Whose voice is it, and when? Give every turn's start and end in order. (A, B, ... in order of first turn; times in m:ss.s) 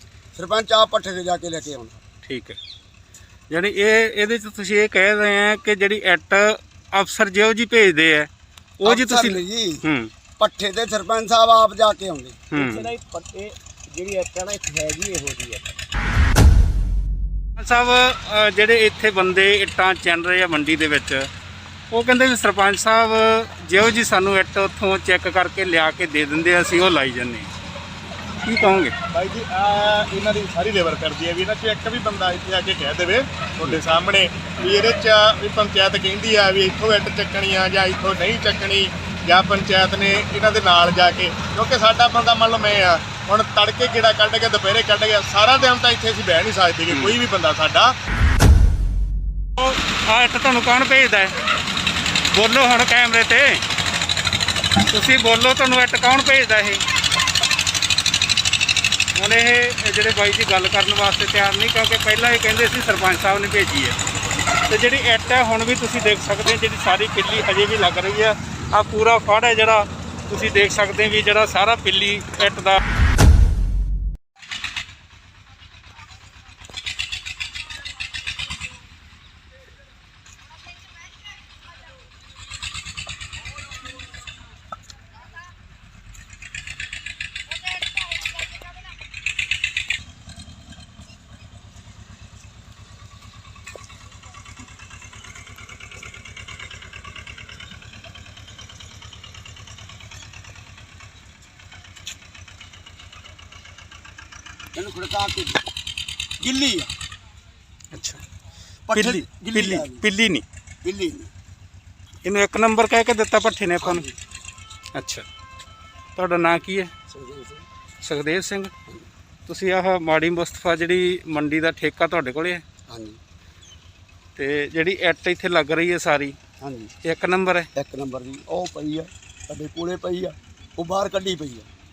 0:00.3-0:02.0 A
0:02.2-0:02.6 B
0:03.5-0:08.3 B
0:08.8-0:10.1 B
0:08.8-0:09.8 A
0:10.4-0:12.4 A
0:12.5-0:12.9 B
0:12.5-0:15.8 C
0:17.6-0:21.3 B
0:21.9-0:27.5 B
0:28.4-0:28.9 B
0:29.1-0:47.9 D
0:46.9-0:47.2 B
0:49.6-0:51.3 B
0:52.3-0:53.6 B
0:54.9-0:56.8 B
0:59.1-1:04.0 B
1:04.7-1:12.8 B
1:44.7-1:45.6 A
1:46.4-1:46.9 A
1:47.9-1:48.2 B
1:48.9-1:50.0 A
1:48.9-1:50.4 B
1:50.8-1:51.3 A
1:52.2-1:54.0 B
1:53.8-1:54.1 A
1:54.9-1:55.2 B
1:56.2-1:56.9 B
1:57.1-1:57.6 A
1:58.0-1:58.7 B
1:59.5-2:02.6 B
2:02.9-2:03.2 A
2:04.4-2:06.4 B
2:06.6-2:06.9 A
2:07.0-2:07.7 B
2:07.7-2:11.7 A